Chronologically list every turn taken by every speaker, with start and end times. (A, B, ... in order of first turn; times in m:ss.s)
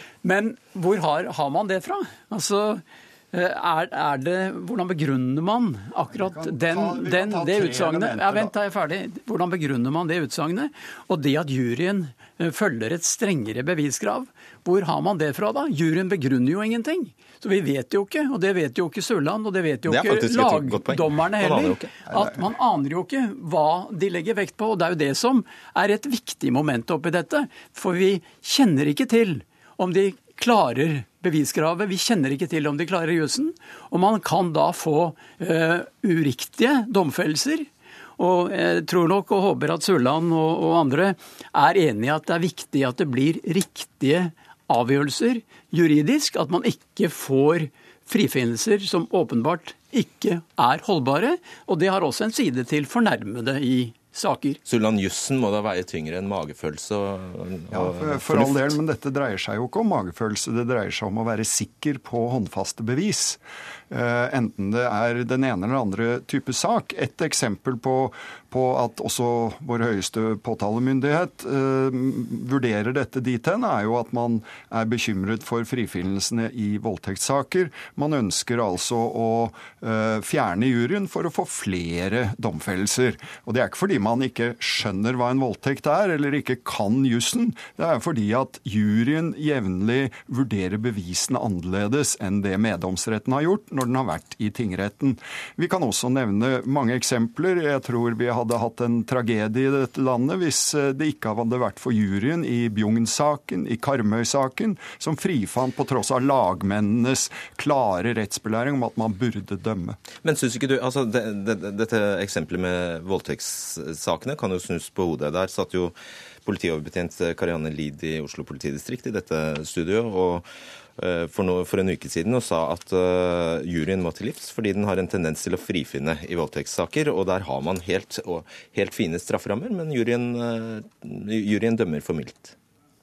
0:00.2-0:54.6 A
0:06.1-0:08.5 B
0:19.9-0:21.9 C
0:22.1-0:22.4 B
0:54.6-0:58.7 C
0:57.7-1:50.0 B
1:50.2-2:00.4 C
2:01.0-2:12.5 C